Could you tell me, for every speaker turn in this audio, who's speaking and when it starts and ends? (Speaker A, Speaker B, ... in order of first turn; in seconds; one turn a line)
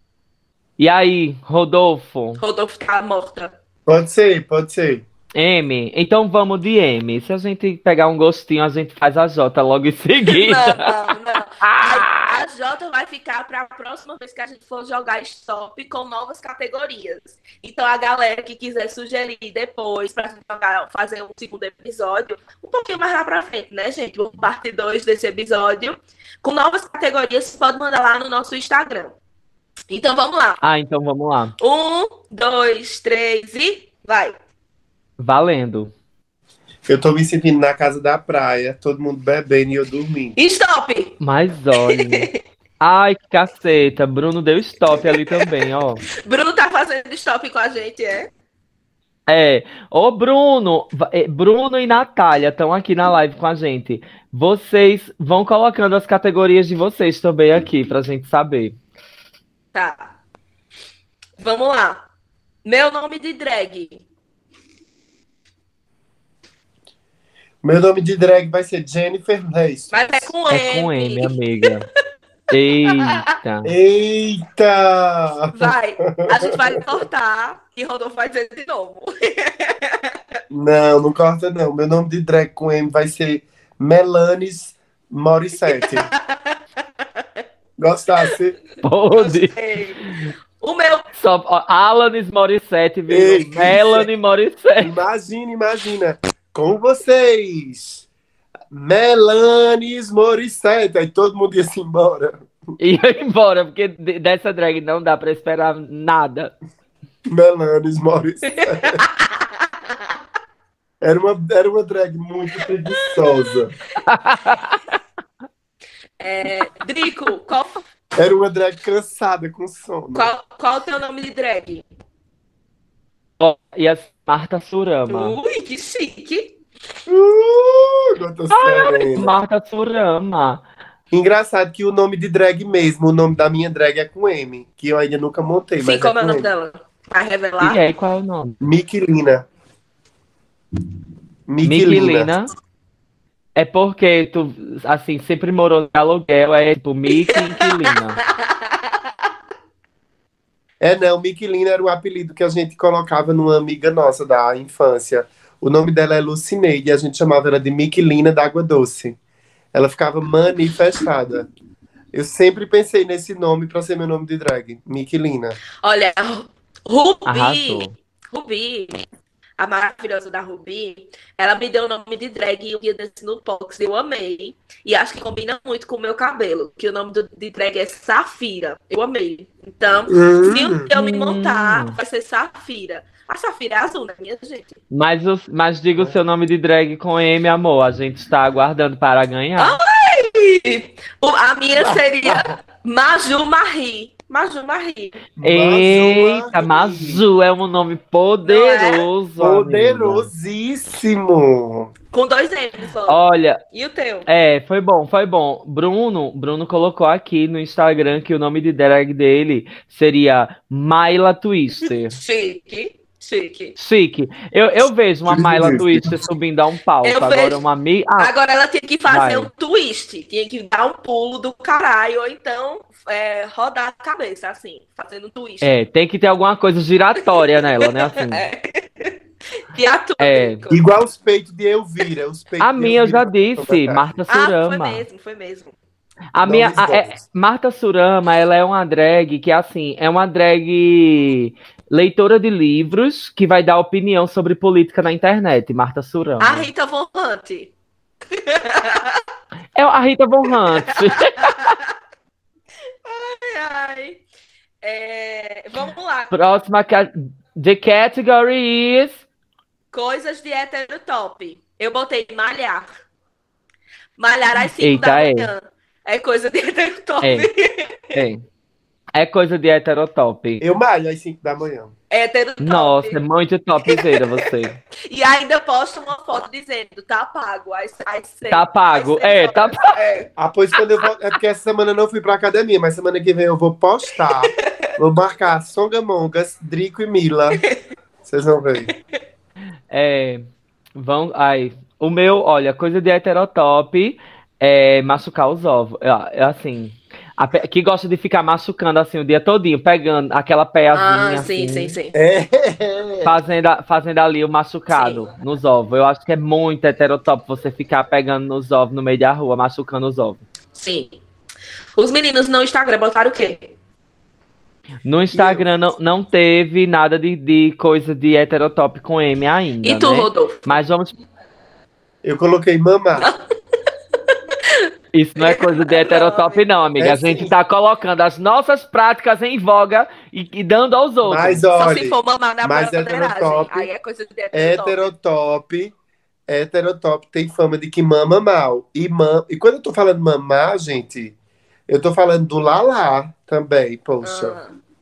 Speaker A: 0.8-2.4
Speaker B: 2.4-3.5
Speaker C: 3.9-5.0
Speaker A: 5.3-10.9
Speaker B: 10.3-29.1
Speaker A: 11.6-12.3
Speaker B: 29.9-30.6
Speaker A: 30.6-31.5
Speaker B: 31.6-34.3
Speaker A: 35.2-35.9
Speaker C: 36.9-40.4
Speaker B: 40.4-41.2
Speaker A: 41.2-42.3
Speaker B: 41.8-42.4
Speaker A: 42.8-46.0
Speaker B: 46.2-48.3
Speaker A: 49.3-58.8
Speaker B: 59.7-60.1
Speaker B: 61.4-62.0
Speaker B: 62.6-64.0
Speaker C: 67.6-70.3
Speaker B: 69.9-71.3
Speaker A: 70.5-71.8
Speaker A: 72.5-73.7
Speaker C: 73.6-76.8
Speaker B: 75.5-80.1
Speaker C: 80.5-86.1
Speaker B: 85.7-86.5
Speaker C: 87.8-88.5
Speaker A: 88.8-89.5
Speaker B: 89.1-90.1
Speaker B: 90.6-91.1
Speaker A: 91.2-94.9
Speaker C: 93.1-94.1
Speaker C: 94.8-98.0
Speaker C: 98.7-102.5
Speaker A: 102.8-106.5
Speaker C: 107.3-109.0
Speaker B: 108.5-110.0
Speaker C: 111.0-113.7
Speaker B: 112.9-113.3
Speaker A: 114.0-114.9
Speaker B: 116.2-117.8
Speaker C: 118.2-120.3
Speaker B: 120.1-121.8
Speaker A: 123.4-125.4
Speaker B: 125.1-126.5
Speaker C: 127.1-129.3
Speaker A: 128.5-130.6
Speaker C: 131.1-136.5
Speaker B: 135.8-137.8
Speaker A: 137.6-138.6
Speaker C: 138.6-139.4
Speaker C: 141.5-142.3
Speaker A: 141.6-142.5
Speaker A: 143.6-148.2
Speaker B: 147.1-149.0
Speaker C: 150.8-159.2
Speaker C: 159.7-161.5
Speaker C: 162.1-165.6
Speaker B: 165.8-169.0
Speaker A: 167.2-167.9
Speaker B: 169.6-184.8
Speaker C: 180.1-180.8
Speaker A: 180.9-181.9
Speaker A: 184.9-189.8
Speaker B: 189.6-195.1
Speaker C: 191.8-192.5
Speaker C: 195.4-197.2
Speaker A: 195.4-200.3
Speaker B: 198.4-199.1
Speaker C: 199.4-201.9
Speaker B: 202.1-203.2
Speaker A: 203.1-203.6
Speaker B: 203.7-204.3
Speaker A: 204.3-212.2
Speaker B: 212.1-213.8
Speaker A: 213.8-218.3
Speaker C: 215.3-216.2
Speaker B: 217.0-217.6
Speaker B: 218.2-225.7
Speaker A: 219.1-219.5
Speaker A: 225.6-228.4
Speaker B: 227.3-229.1
Speaker B: 229.7-230.9
Speaker A: 230.2-230.6
Speaker C: 230.7-234.1
Speaker A: 232.6-235.0
Speaker B: 234.3-235.7
Speaker A: 236.3-246.7
Speaker C: 236.4-237.2
Speaker B: 246.4-247.7
Speaker B: 248.3-249.2
Speaker A: 249.8-251.7
Speaker B: 250.8-251.8
Speaker B: 253.0-254.2
Speaker B: 254.8-256.3
Speaker A: 256.3-259.2
Speaker B: 259.9-262.9
Speaker B: 264.2-268.1
Speaker A: 264.8-265.5
Speaker A: 267.2-267.5
Speaker A: 268.1-268.4
Speaker A: 269.1-270.6
Speaker C: 270.6-271.9
Speaker B: 272.1-273.2
Speaker A: 272.6-274.8
Speaker B: 273.9-274.5
Speaker B: 275.1-280.3
Speaker A: 278.5-279.8
Speaker C: 280.4-287.6
Speaker B: 284.2-284.6
Speaker C: 288.2-288.9
Speaker A: 289.9-301.9
Speaker B: 300.9-302.1
Speaker C: 302.1-303.3
Speaker A: 303.2-310.4
Speaker B: 304.9-305.2
Speaker B: 310.7-311.1
Speaker B: 312.0-313.7
Speaker A: 315.0-321.1
Speaker C: 315.3-315.6
Speaker B: 319.8-320.7
Speaker C: 322.2-323.3
Speaker A: 325.1-331.6
Speaker B: 325.4-326.6
Speaker C: 327.0-327.5
Speaker C: 331.2-333.9
Speaker B: 331.8-335.1
Speaker C: 334.5-335.9
Speaker C: 336.5-341.3
Speaker C: 341.9-344.6
Speaker B: 344.2-344.8